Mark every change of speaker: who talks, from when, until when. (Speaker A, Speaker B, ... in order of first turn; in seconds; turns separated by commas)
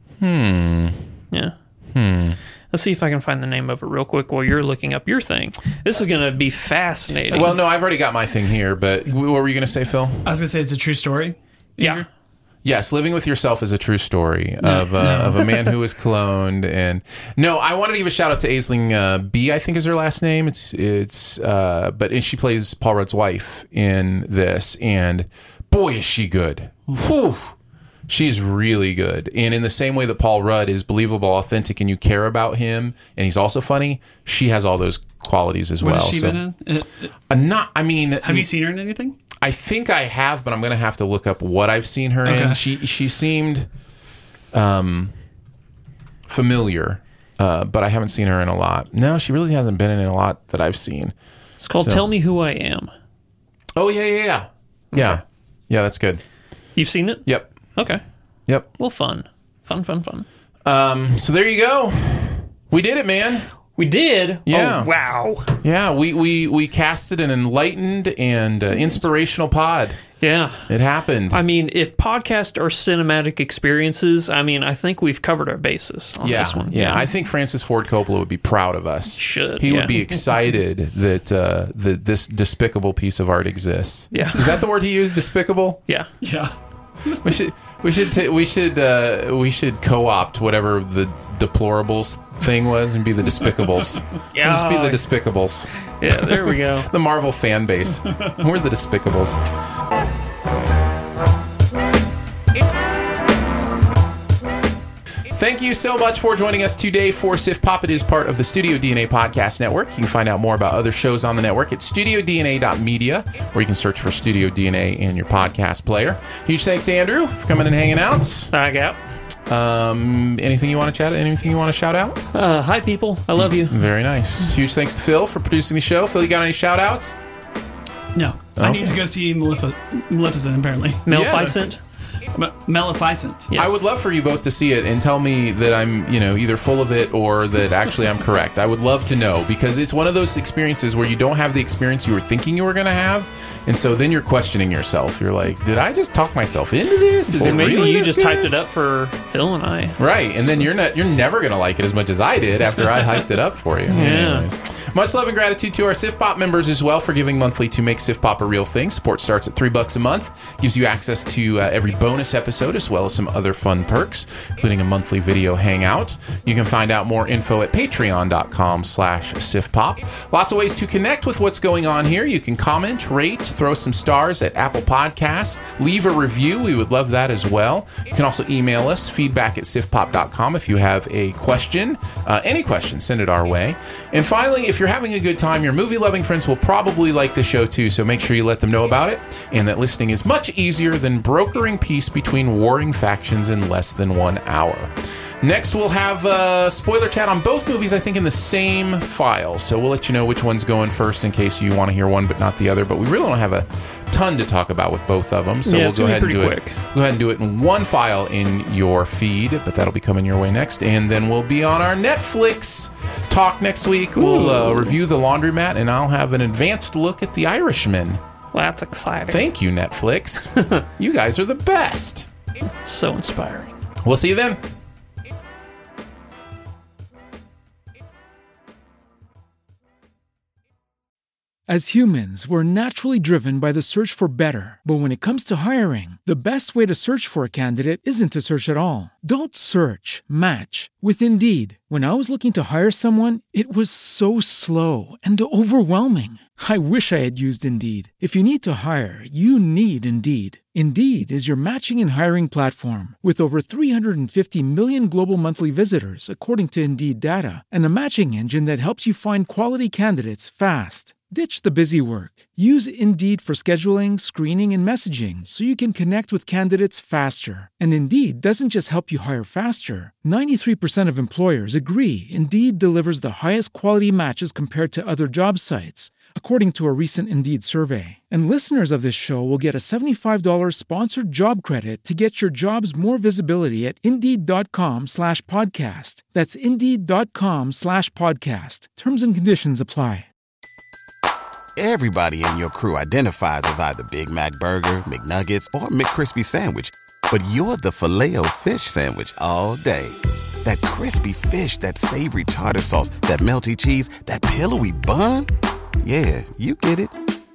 Speaker A: 0.2-1.0, Speaker A: 1.9-2.4, Speaker B: 2.7-7.5, Speaker C: 7.3-7.6, Speaker A: 7.3-10.3, Speaker C: 10.2-12.1, Speaker A: 12.6-27.6, Speaker C: 14.7-15.5, Speaker A: 28.1-36.4, Speaker C: 35.8-37.1, Speaker A: 37.3-38.5, Speaker C: 38.2-39.1, Speaker A: 39.4-43.7, Speaker C: 42.2-42.6, Speaker A: 44.5-45.1, Speaker A: 46.3-51.1, Speaker B: 51.6-52.9, Speaker A: 51.7-52.0, Speaker A: 53.8-56.2, Speaker B: 56.8-58.0, Speaker A: 57.3-57.5, Speaker B: 58.8-60.3, Speaker A: 60.6-63.5, Speaker B: 63.8-65.6, Speaker A: 64.5-64.9, Speaker A: 65.6-70.0, Speaker B: 70.2-70.7, Speaker A: 70.7-71.4, Speaker B: 71.3-77.0, Speaker A: 76.2-85.8, Speaker B: 79.2-80.0, Speaker B: 84.1-84.6, Speaker C: 86.2-86.5, Speaker A: 87.2-99.4, Speaker B: 94.3-95.0, Speaker B: 96.0-96.9, Speaker A: 105.3-118.5, Speaker B: 118.5-119.0, Speaker A: 119.5-122.2, Speaker B: 122.3-123.8, Speaker A: 123.4-127.2, Speaker C: 128.1-131.6, Speaker A: 128.6-129.0, Speaker B: 131.1-131.8, Speaker A: 131.1-131.6, Speaker C: 132.3-133.5, Speaker A: 133.6-148.5, Speaker B: 147.3-150.6, Speaker A: 150.0-218.2, Speaker B: 153.9-154.5, Speaker B: 205.7-206.8, Speaker B: 214.1-215.0, Speaker B: 218.5-219.4, Speaker A: 219.3-222.3, Speaker B: 222.8-223.7, Speaker A: 224.0-224.6, Speaker D: 231.7-290.3, Speaker E: 291.8-305.5, Speaker E: 306.0-307.2